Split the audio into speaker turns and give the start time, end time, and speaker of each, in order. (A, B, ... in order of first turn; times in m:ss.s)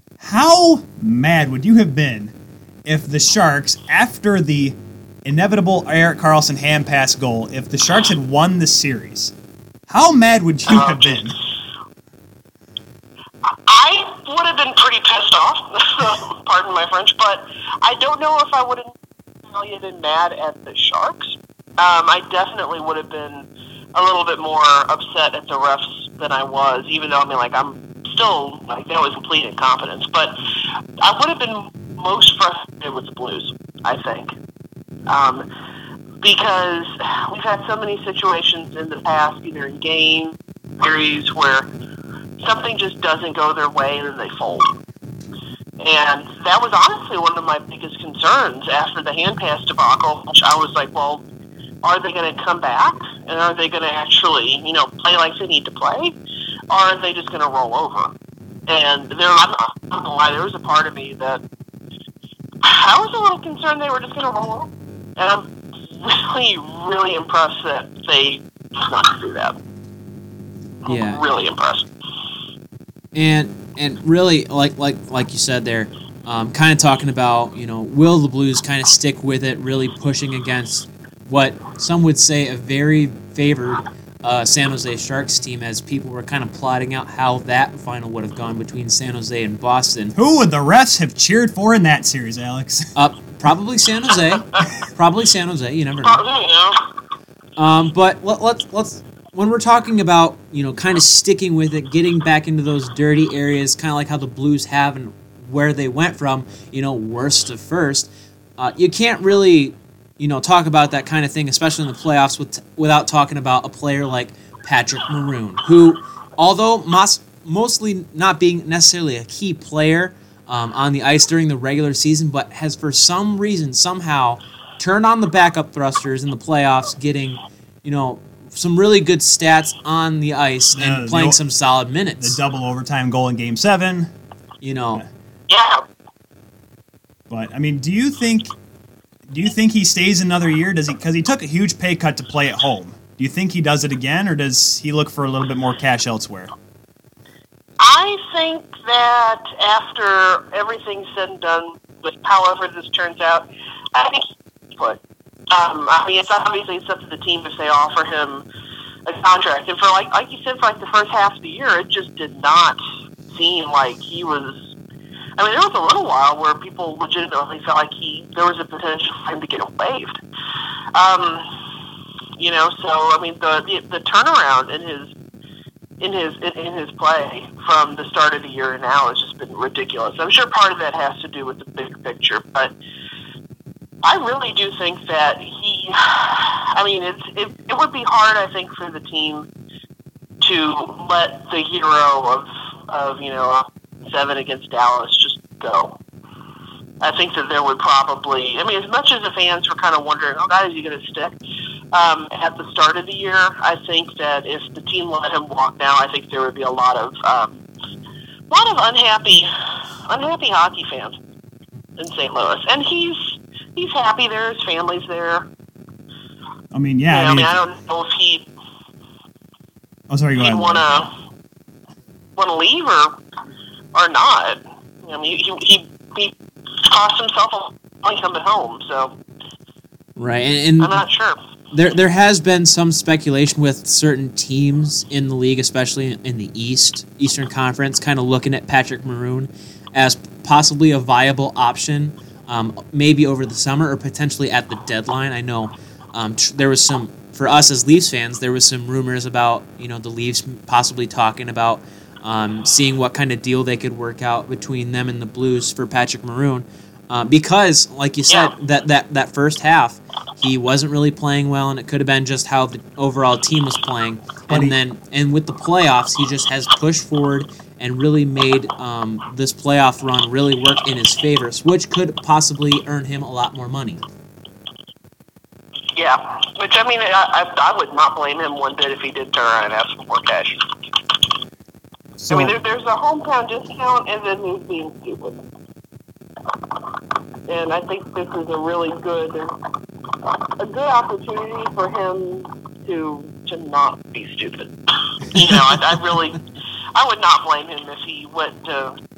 0:00.2-0:02.3 A
0:02.9-0:09.3 A
0:09.9-0:11.4 A
0:10.7-0:11.2 B
0:13.7-0:18.9 B
0:19.5-0:30.4 B
0:31.0-0:34.3 B
0:35.1-0:35.5 B
0:36.2-0:41.7 B
0:42.4-0:44.7 B
0:45.8-0:51.2 B
0:51.8-0:56.2 B
0:56.7-0:58.1 B
0:58.7-1:01.4 B
1:02.6-1:09.6 B
1:10.9-1:11.9 B
1:10.9-1:11.2 C
1:13.1-1:30.2 C
1:30.2-1:32.9 A
1:33.0-1:36.2 C
1:36.0-1:36.8 B
1:37.6-2:12.4 C
2:10.7-2:11.4 A
2:12.2-2:14.1 A
2:14.6-2:15.0 C
2:15.5-2:15.8 B
2:17.3-2:18.5 A
2:19.3-2:26.5 A
2:27.8-2:38.4 B
2:39.1-2:42.8 B
2:43.3-2:44.7 B
2:45.4-2:50.2 B
2:51.0-2:51.5 B
2:52.4-2:55.1 B
2:56.0-3:02.7 B
3:04.0-3:09.5 B
3:10.4-3:16.0 B
3:17.0-3:21.4 B
3:21.9-3:27.6 B
3:28.5-3:29.5 B
3:30.1-3:31.2 B
3:32.0-3:35.5 B
3:36.7-3:37.6 A
3:37.1-3:38.5 B
3:40.1-3:41.0 A
3:40.4-3:41.1 B
3:42.4-3:43.2 B
3:43.9-3:49.2 B
3:50.2-3:51.0 C
3:50.8-3:51.4 B
3:51.7-4:34.0 C
4:18.3-4:18.5 B
4:24.5-4:24.8 A
4:36.0-4:40.6 B
4:42.2-4:42.6 A
4:42.3-4:45.4 B
4:47.5-4:49.5 B
4:50.6-4:56.4 B
4:57.0-4:59.0 B